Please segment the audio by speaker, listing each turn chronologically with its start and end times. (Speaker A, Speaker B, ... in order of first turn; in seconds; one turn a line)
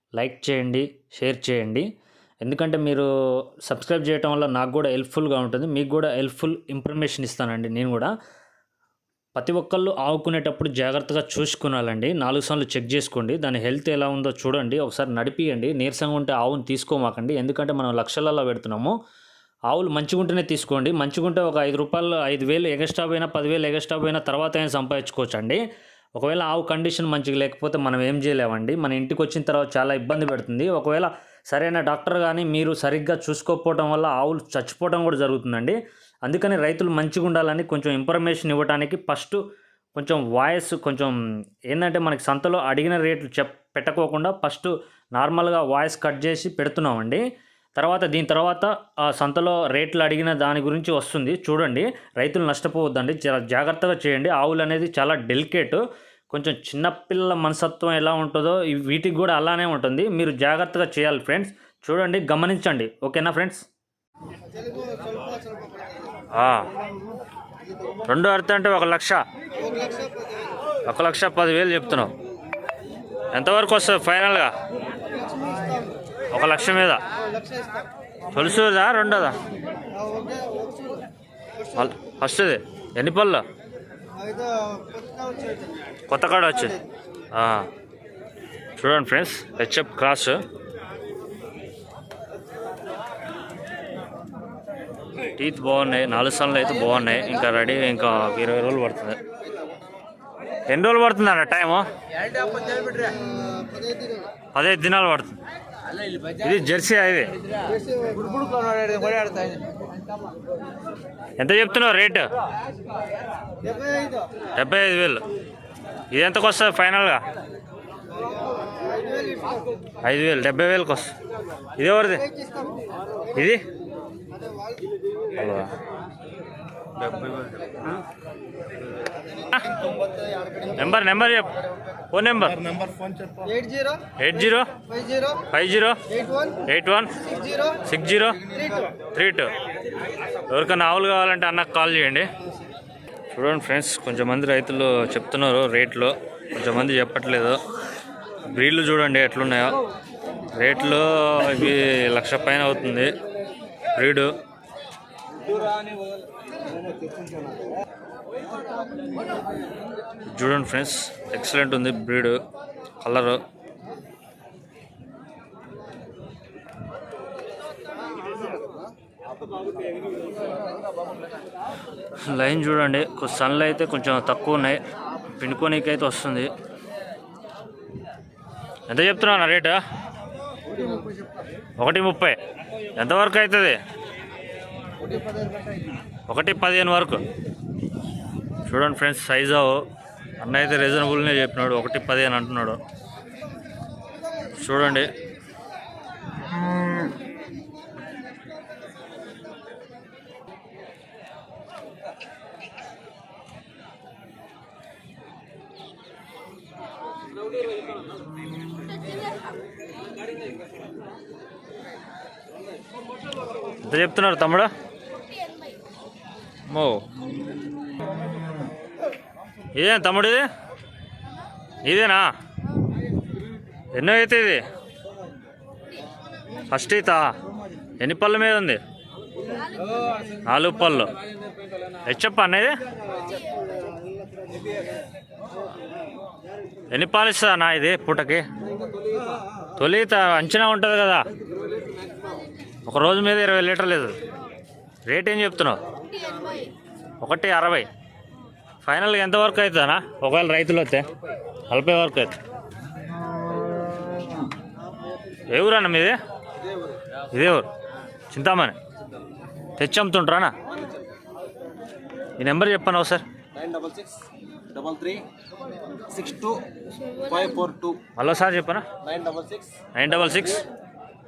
Speaker A: 0.2-1.9
Speaker A: 2.4-3.1
Speaker A: 3.6-8.1
Speaker A: 9.3-18.9
Speaker A: 19.7-25.6
Speaker A: 26.2-39.4
Speaker A: 39.9-41.2
Speaker A: 41.7-47.2
Speaker A: 47.8-63.6
Speaker A: 66.3-66.7
Speaker A: 68.1-69.2
Speaker B: 69.8-70.0
Speaker A: 70.9-72.1
Speaker A: 73.3-74.5
Speaker B: 75.4-75.8
Speaker A: 76.3-77.0
Speaker A: 78.3-79.4
Speaker B: 80.0-81.0
Speaker A: 81.7-83.4
Speaker B: 84.2-85.6
Speaker A: 86.1-86.8
Speaker A: 87.3-87.7
Speaker A: 88.8-90.4
Speaker A: 95.4-99.2
Speaker A: 100.7-101.8
Speaker C: 102.3-103.2
Speaker B: 103.4-104.1
Speaker A: 104.5-105.4
Speaker A: 106.2-107.3
Speaker C: 108.1-109.6
Speaker A: 111.4-112.3
Speaker A: 114.5-115.2
Speaker A: 116.1-117.2
Speaker B: 119.1-119.4
Speaker A: 120.0-121.1
Speaker A: 121.8-122.3
Speaker A: 123.3-123.6
Speaker A: 125.3-125.7
Speaker A: 130.8-131.5
Speaker A: 132.1-132.6
Speaker B: 133.4-134.0
Speaker A: 134.2-134.7
Speaker A: 135.5-136.0
Speaker A: 136.6-137.1
Speaker A: 137.8-138.6
Speaker A: 139.1-139.5
Speaker A: 140.5-142.3
Speaker A: 143.3-147.6
Speaker A: 148.5-149.8
Speaker A: 150.6-153.1
Speaker A: 153.9-154.3
Speaker C: 155.5-155.9
Speaker A: 160.3-162.4
Speaker A: 163.0-163.4
Speaker A: 172.2-176.5
Speaker A: 178.9-179.8
Speaker A: 181.8-182.4
Speaker A: 183.0-183.8
Speaker A: 186.3-187.2
Speaker A: 188.7-189.8
Speaker A: 190.4-192.8
Speaker A: 194.6-195.1
Speaker A: 213.8-214.7
Speaker A: 216.7-217.0
Speaker A: 219.8-220.5
Speaker A: 221.8-222.3
Speaker A: 223.9-224.6
Speaker A: 226.7-227.3
Speaker A: 228.0-228.8
Speaker A: 230.4-231.1
Speaker A: 232.1-232.8
Speaker A: 236.9-238.4
Speaker A: 239.8-241.3
Speaker A: 242.9-244.1
Speaker A: 245.1-245.8
Speaker A: 247.2-247.9
Speaker A: 248.8-251.1
Speaker A: 251.7-252.4
Speaker A: 255.5-256.1
Speaker A: 257.3-257.7
Speaker A: 258.3-258.8
Speaker A: 259.8-260.5
Speaker C: 260.7-261.0
Speaker A: 262.4-263.2
Speaker C: 263.5-265.3
Speaker C: 266.1-268.0
Speaker A: 268.1-268.9
Speaker C: 269.0-269.7
Speaker A: 269.9-270.6